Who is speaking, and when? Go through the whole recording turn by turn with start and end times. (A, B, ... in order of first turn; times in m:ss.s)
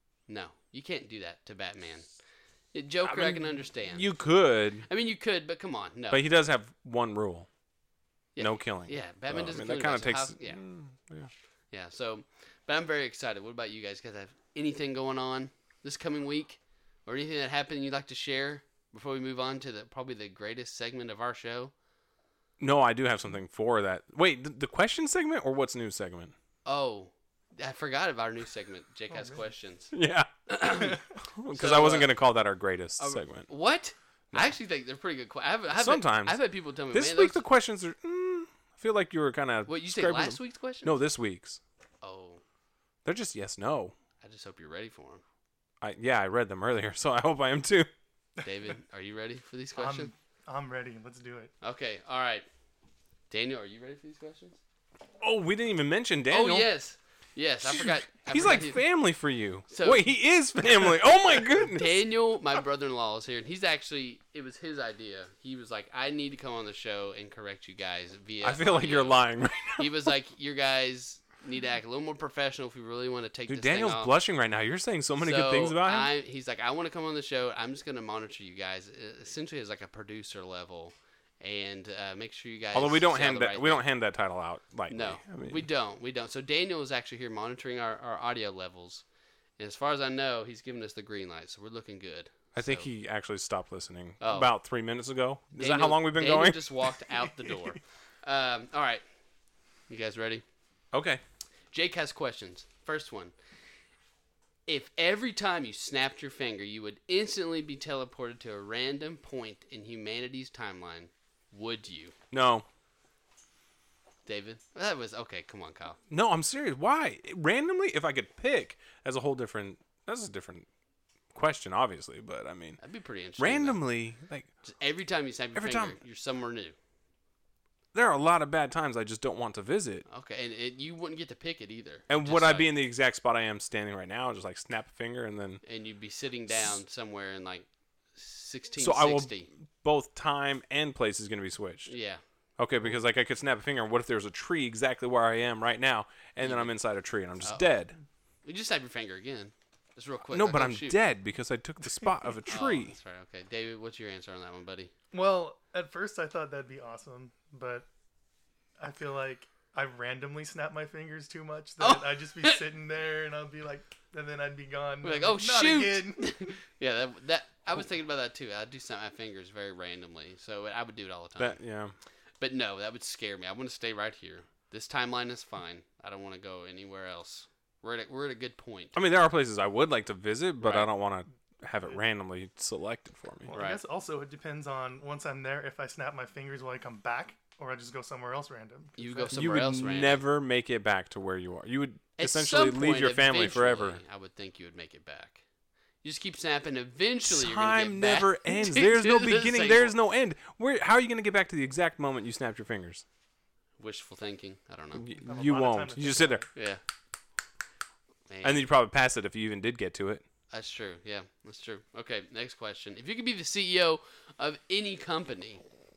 0:00.3-0:02.0 A
0:02.7-0:04.1 A
0:03.0-0:04.9 B
0:04.9-0:06.2 A
0:06.1-0:07.5 B
0:08.4-0:10.6 A
0:08.4-0:11.3 B
0:11.7-0:21.7 A
0:22.6-0:26.3 B
0:26.6-0:29.9 A
0:29.1-0:29.4 C
0:29.9-0:33.5 B
0:30.5-0:31.0 A
0:31.5-0:32.2 A
0:33.0-0:37.4 A
0:35.8-0:36.4 B
0:36.9-0:41.6 B
0:39.6-0:41.0 A
0:42.0-0:42.4 A
0:43.0-0:43.9 B
0:44.2-0:45.2 A
0:45.8-0:47.9 B
0:48.4-0:50.1 A
0:49.8-0:51.5 C
0:51.6-0:52.5 A
0:53.3-0:54.6 A
0:55.2-0:56.7 B
0:56.3-0:58.8 A
0:57.7-1:02.0 B
0:59.7-1:00.1 A
1:01.5-1:09.2 A
1:08.4-1:10.1 B
1:09.8-1:14.1 A
1:13.5-1:16.1 B
1:15.2-1:23.8 A
1:22.7-1:25.7 B
1:24.9-1:29.0 A
1:29.6-1:32.9 A
1:32.5-1:36.9 B
1:34.2-1:34.5 A
1:35.5-1:39.0 A
1:39.9-1:40.4 A
1:40.9-1:41.2 B
1:41.7-1:43.3 A
1:44.7-1:52.1 A
1:52.3-1:52.6 B
1:54.2-1:56.0 A
1:56.1-2:00.7 B
2:01.3-2:02.8 B
2:02.8-2:03.8 A
2:03.4-2:04.5 B
2:04.6-2:06.7 A
2:05.5-2:06.0 B
2:07.9-2:10.0 B
2:10.0-2:12.7 A
2:12.1-2:15.6 B
2:15.6-2:19.5 A
2:18.8-2:21.9 B
2:21.9-2:22.2 A
2:22.6-2:28.0 B
2:26.4-2:26.7 A
2:27.4-2:27.7 A
2:28.4-2:31.0 A
2:30.3-2:32.9 B
2:32.5-2:34.9 A
2:35.1-2:37.8 C
2:38.8-2:46.5 C
2:41.8-2:42.6 A
2:45.0-2:51.6 A
2:51.4-2:51.9 B
2:52.4-2:59.0 A
2:58.9-3:03.5 B
3:00.6-3:00.9 A
3:03.4-3:09.3 C
3:03.5-3:03.8 A
3:09.0-3:10.2 A
3:09.3-3:14.0 B
3:12.2-3:15.4 A
3:16.0-3:19.9 A
3:17.2-3:23.0 B
3:23.8-3:25.1 A
3:24.9-3:26.4 B
3:25.2-3:26.5 C
3:26.5-3:26.8 A
3:28.3-3:28.6 A
3:28.4-3:30.2 B
3:30.5-3:35.6 A